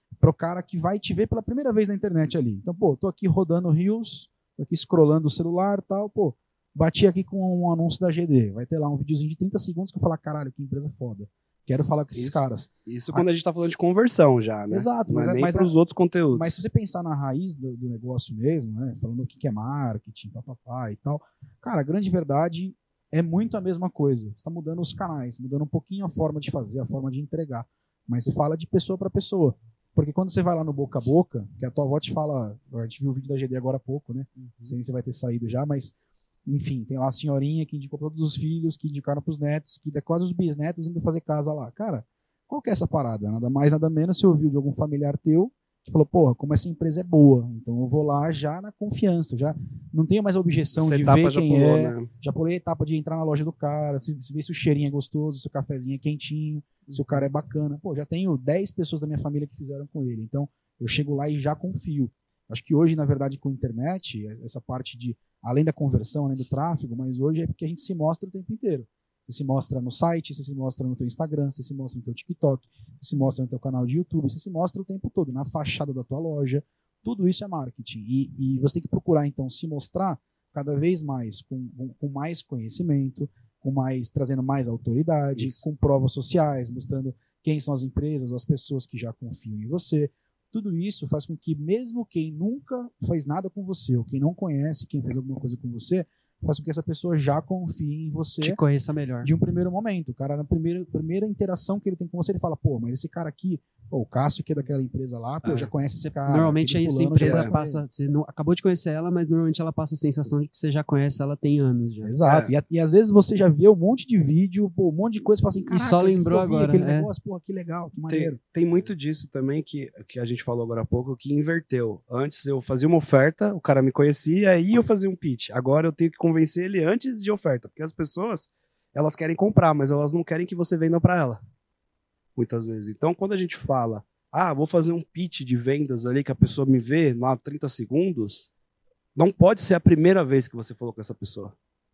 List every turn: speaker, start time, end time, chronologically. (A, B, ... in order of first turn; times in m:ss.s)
0:00.2-0:13.2 A
0:12.1-0:16.6 B
0:14.7-0:15.7 A
0:16.3-0:35.9 A
0:34.4-0:34.8 C
0:36.4-1:38.6 A
0:50.8-0:52.1 B
0:56.9-0:57.2 C
1:25.4-1:25.6 B
1:38.4-1:39.3 C
1:39.2-1:47.8 A
1:45.4-1:45.7 B
1:45.5-1:52.1 C
1:47.2-1:47.5 B
1:52.0-1:58.4 A
1:52.2-1:52.5 B
1:55.7-1:57.1 C
1:58.1-2:11.4 B
2:12.4-2:18.4 B
2:19.1-2:21.5 B